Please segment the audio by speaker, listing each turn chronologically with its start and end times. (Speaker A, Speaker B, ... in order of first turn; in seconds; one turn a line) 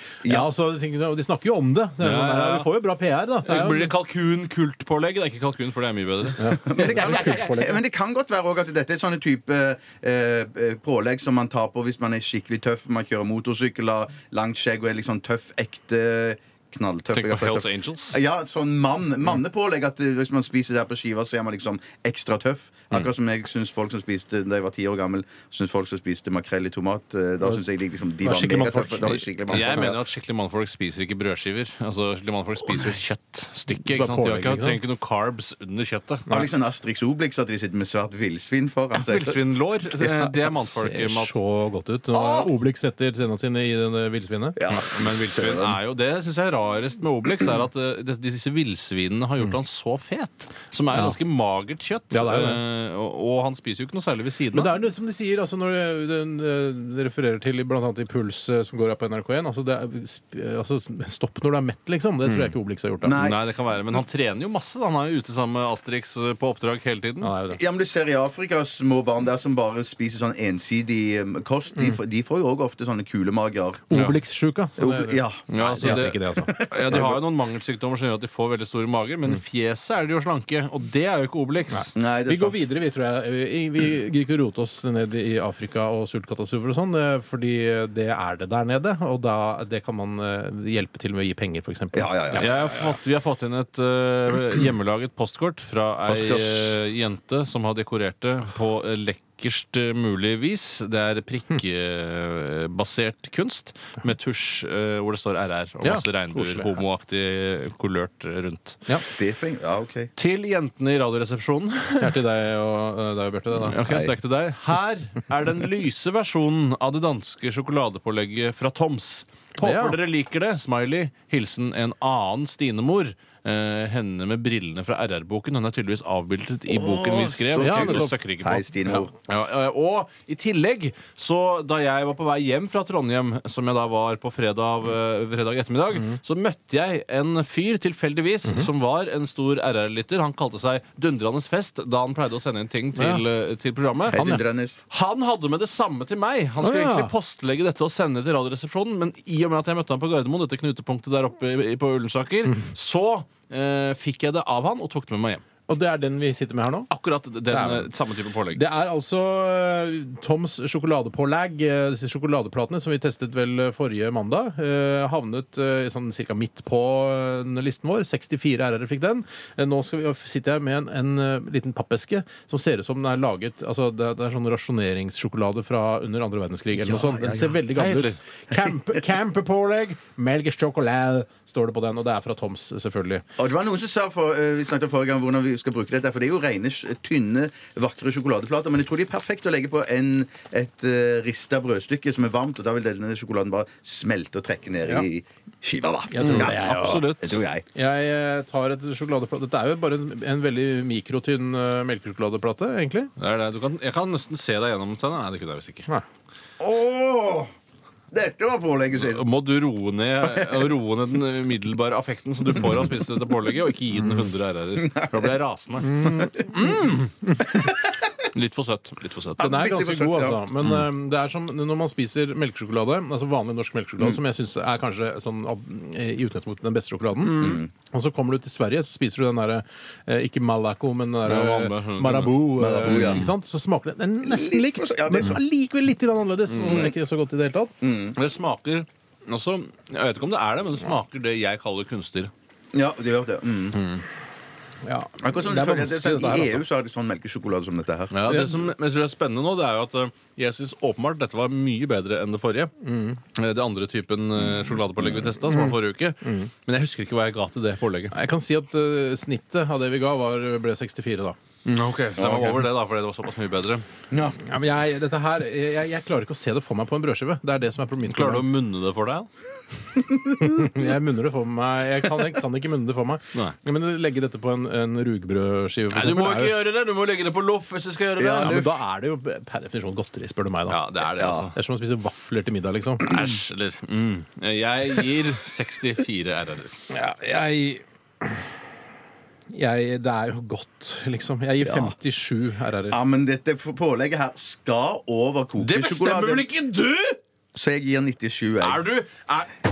Speaker A: 0.2-0.5
Speaker B: 0.2-3.9
Speaker C: 2.0-2.7
Speaker C: 3.4-7.4
Speaker B: 6.4-7.8
Speaker A: 6.7-30.0
Speaker C: 17.1-18.2
Speaker B: 28.2-29.9
Speaker C: 29.5-36.3
Speaker B: 33.8-34.8
Speaker A: 36.3-39.4
Speaker C: 38.9-41.3
Speaker A: 40.0-40.3
Speaker B: 40.5-44.8
Speaker A: 42.1-42.5
Speaker A: 44.5-45.8
Speaker C: 44.8-54.7
Speaker B: 50.9-51.2
Speaker B: 52.1-52.6
Speaker B: 54.5-63.2
Speaker C: 62.3-62.5
Speaker A: 63.0-63.4
Speaker C: 63.2-67.3
Speaker B: 67.2-67.6
Speaker A: 67.5-73.8
Speaker B: 73.9-77.1
Speaker C: 73.9-74.2
Speaker A: 74.8-77.2
Speaker C: 75.5-82.0
Speaker B: 81.7-92.9
Speaker A: 81.9-82.6
Speaker A: 91.9-92.5
Speaker C: 92.3-109.0
Speaker A: 96.0-96.8
Speaker B: 105.8-106.8
Speaker A: 109.2-110.1
Speaker C: 110.2-112.2
Speaker B: 112.0-113.8
Speaker C: 113.6-144.2
Speaker A: 113.8-114.1
Speaker B: 119.6-120.0
Speaker A: 126.7-129.1
Speaker B: 127.6-128.1
Speaker B: 142.9-143.2
Speaker A: 144.1-144.8
Speaker B: 144.1-144.4
Speaker C: 144.9-155.4
Speaker B: 146.6-147.1
Speaker B: 155.7-156.9
Speaker C: 156.9-158.6
Speaker B: 157.5-157.9
Speaker B: 158.5-183.2
Speaker A: 176.7-177.6
Speaker C: 177.7-178.2
Speaker A: 183.4-196.6
Speaker B: 196.1-197.1
Speaker C: 196.2-197.4
Speaker A: 197.2-197.6
Speaker B: 197.7-203.1
Speaker C: 203.2-205.9
Speaker A: 206.6-207.5
Speaker A: 208.1-209.3
Speaker C: 208.9-216.0
Speaker A: 210.2-210.7
Speaker A: 214.8-215.2
Speaker B: 215.8-217.7
Speaker A: 216.0-216.3
Speaker C: 216.6-217.1
Speaker C: 218.2-219.5
Speaker A: 219.4-220.4
Speaker B: 219.4-237.7
Speaker A: 227.2-227.7
Speaker C: 231.2-233.3
Speaker A: 232.6-233.3
Speaker A: 234.2-235.4
Speaker C: 236.5-236.9
Speaker A: 236.7-236.9
Speaker A: 237.8-238.2
Speaker C: 238.1-242.3
Speaker A: 242.7-243.8
Speaker C: 243.7-244.0
Speaker B: 244.8-246.6
Speaker A: 245.2-248.2
Speaker C: 248.1-252.7
Speaker B: 248.3-248.7
Speaker B: 252.8-253.2
Speaker C: 253.3-258.1
Speaker B: 255.4-256.5
Speaker B: 258.1-261.4
Speaker C: 261.6-263.8
Speaker A: 262.1-262.7
Speaker A: 264.1-264.4
Speaker B: 264.4-268.4
Speaker C: 268.0-269.3
Speaker A: 270.2-270.7
Speaker B: 270.4-276.6
Speaker C: 275.9-278.6
Speaker A: 278.2-278.8
Speaker B: 278.3-280.8
Speaker C: 280.7-281.5
Speaker A: 281.1-281.5
Speaker B: 281.5-283.2
Speaker C: 283.0-286.8
Speaker B: 286.9-288.4
Speaker B: 289.5-293.0
Speaker A: 291.6-291.9
Speaker A: 292.9-296.5
Speaker C: 295.6-297.2
Speaker A: 297.5-298.9
Speaker C: 298.6-299.5